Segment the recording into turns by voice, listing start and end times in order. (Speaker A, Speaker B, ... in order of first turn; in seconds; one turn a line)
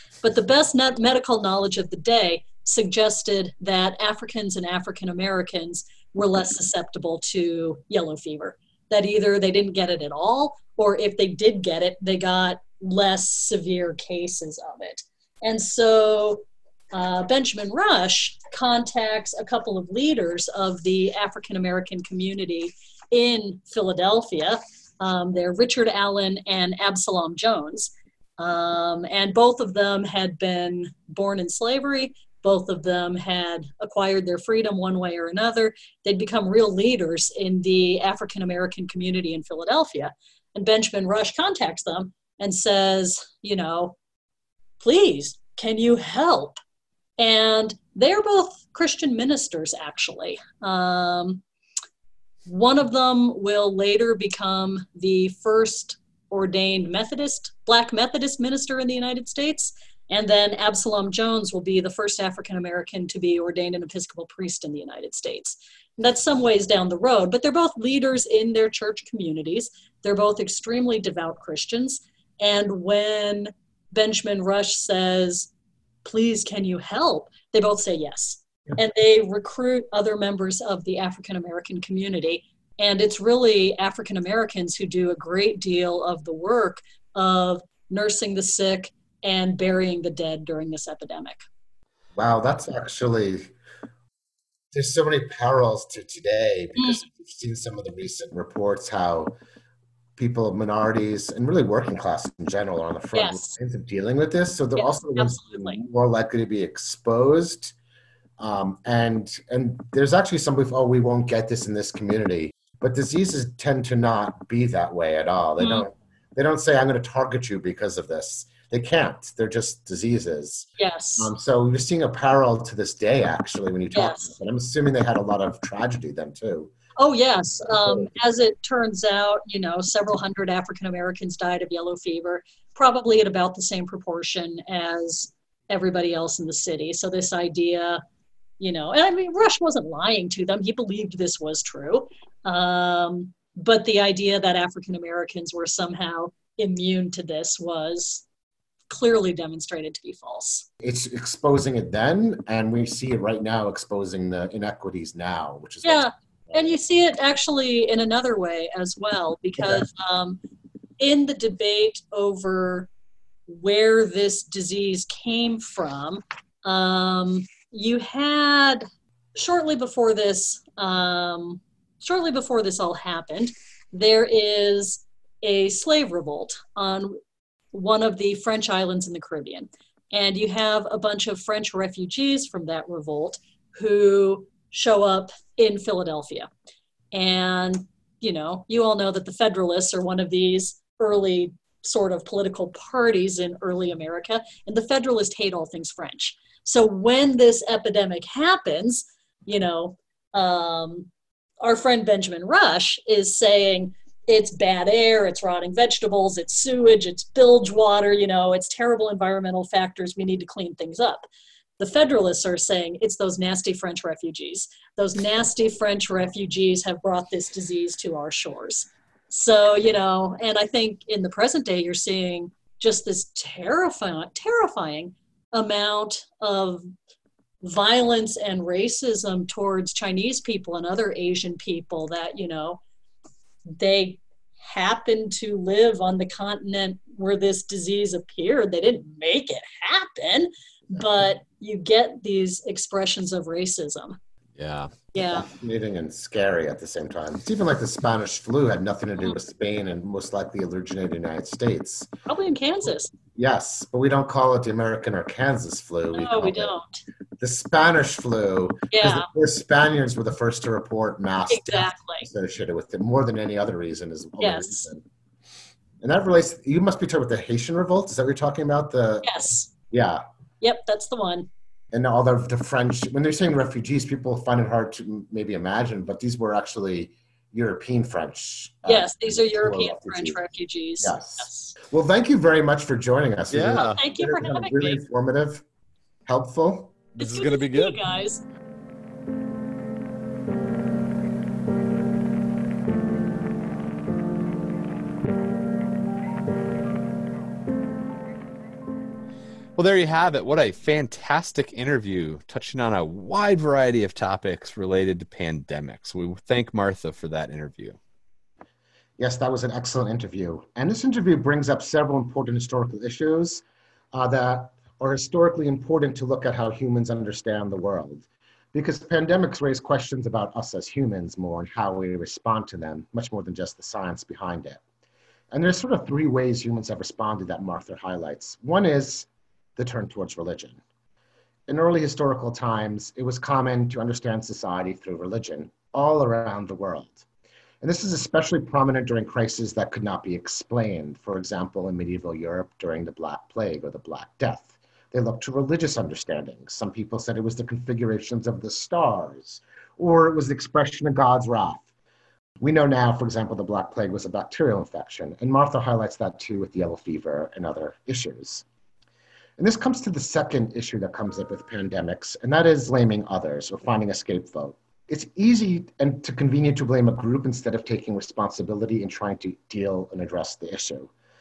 Speaker A: 0.2-43.9
Speaker A: 44.8-46.6
Speaker A: 47.2-51.4
Speaker A: 52.5-75.5
Speaker A: 76.0-91.4
Speaker B: 92.1-93.5
Speaker B: 94.7-99.3
Speaker A: 96.8-97.0
Speaker B: 100.2-107.8
Speaker A: 103.1-103.5
Speaker A: 104.8-105.8
Speaker B: 108.4-126.7
Speaker A: 115.6-115.8
Speaker A: 120.8-121.3
Speaker A: 123.9-124.3
Speaker A: 127.0-138.0
Speaker B: 127.7-128.1
Speaker A: 138.6-148.2
Speaker A: 148.9-150.6
Speaker B: 150.8-156.7
Speaker A: 155.8-160.4
Speaker B: 159.6-159.8
Speaker A: 161.0-162.9
Speaker A: 163.5-177.2
Speaker A: 177.7-186.5
Speaker A: 187.1-201.1
Speaker A: 201.6-211.3
Speaker A: 211.8-226.9
Speaker A: 227.6-232.8
Speaker A: 233.8-244.2
Speaker C: 244.6-244.9
Speaker A: 245.1-245.5
Speaker B: 245.2-252.1
Speaker A: 252.3-253.1
Speaker B: 253.3-256.7
Speaker A: 256.1-257.0
Speaker B: 257.4-265.0
Speaker A: 258.9-259.3
Speaker A: 261.5-262.3
Speaker A: 264.4-264.9
Speaker B: 266.0-270.2
Speaker A: 269.2-269.7
Speaker A: 270.6-271.5
Speaker B: 271.9-280.4
Speaker A: 278.9-281.7
Speaker B: 281.0-285.6
Speaker C: 283.5-284.0
Speaker A: 283.8-285.0
Speaker B: 286.2-286.9
Speaker C: 287.1-288.0
Speaker A: 287.2-288.4
Speaker C: 299.8-308.0
Speaker B: 309.2-324.8
Speaker B: 325.5-330.8
Speaker B: 331.7-337.2
Speaker B: 337.8-351.9
Speaker B: 352.6-358.6
Speaker B: 359.6-371.1